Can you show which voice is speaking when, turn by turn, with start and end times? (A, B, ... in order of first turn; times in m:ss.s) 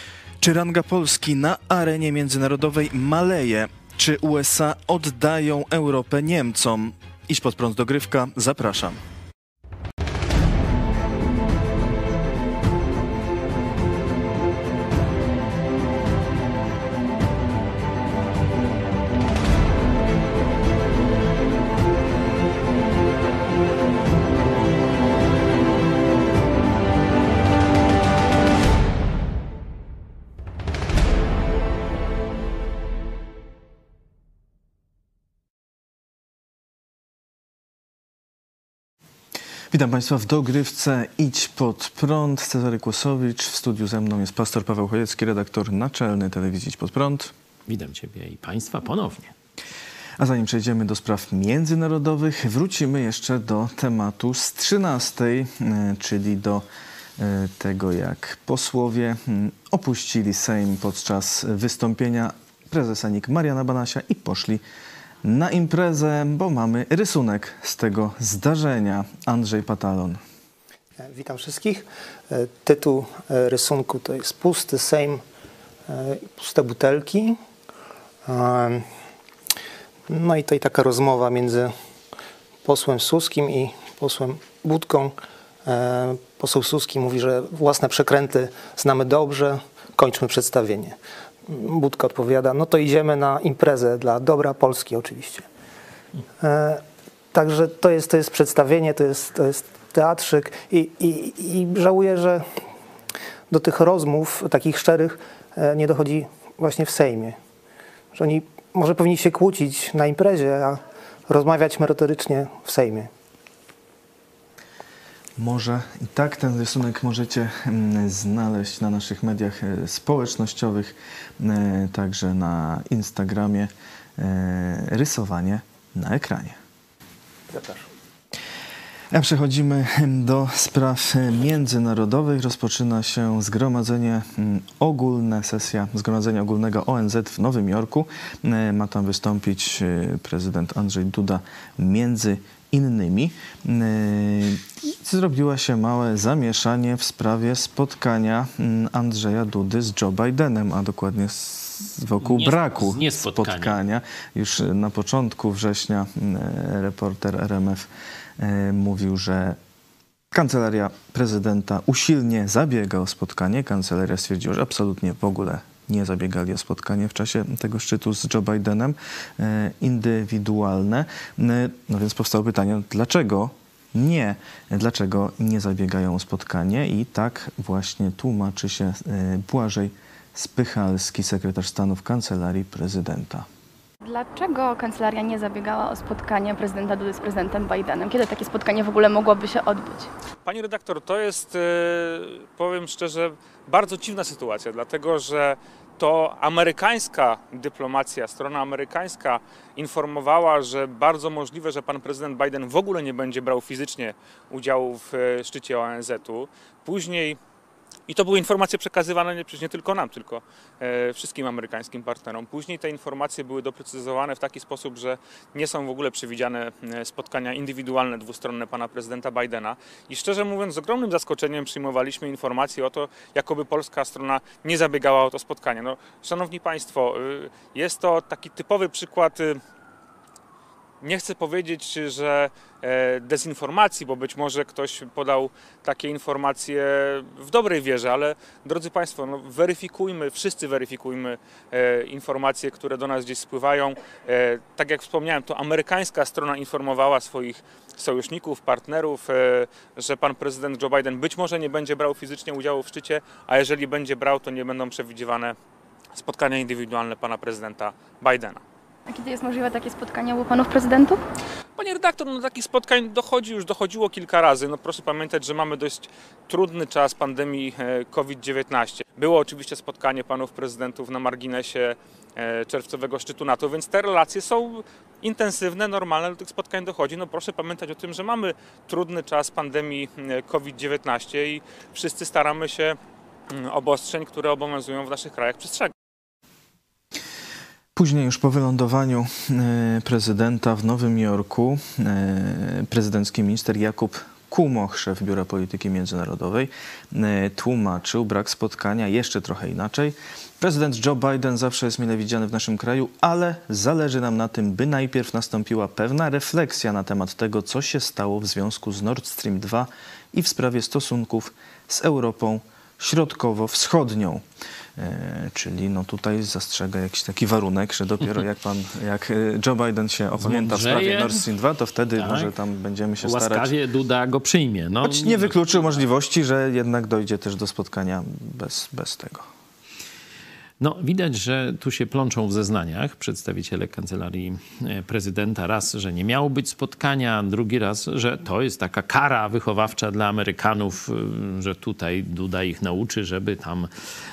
0:00.4-0:09.0 A
0:39.7-0:47.3 A
0:47.7-0:49.3 B
0:50.2-0:56.7 A
0:57.2-1:04.6 A
1:05.2-1:10.2 A
1:11.0-1:15.2 C
1:15.9-1:17.4 C
1:18.3-1:18.8 C
1:20.1-1:21.7 C
1:22.6-1:35.5 C
1:36.4-1:42.6 C
1:43.5-1:47.4 C
1:48.1-1:53.1 C
1:55.4-2:06.6 A
2:07.5-2:07.8 C
2:09.1-2:39.6 A
2:32.2-2:33.8 B
2:40.3-3:03.5 A
3:04.0-3:10.1 D
3:10.4-3:27.4 E
3:28.1-3:49.6 E
3:51.0-4:15.6 E
4:16.1-4:18.6 E
4:19.1-4:21.2 D
4:21.8-4:43.0 E
4:43.5-4:45.9 E
4:48.0-5:14.4 A
5:15.0-5:23.7 A
5:20.4-5:21.4 B
5:22.2-5:22.5 B
5:23.2-5:26.0 B
5:25.0-5:29.5 A
5:30.8-5:43.9 B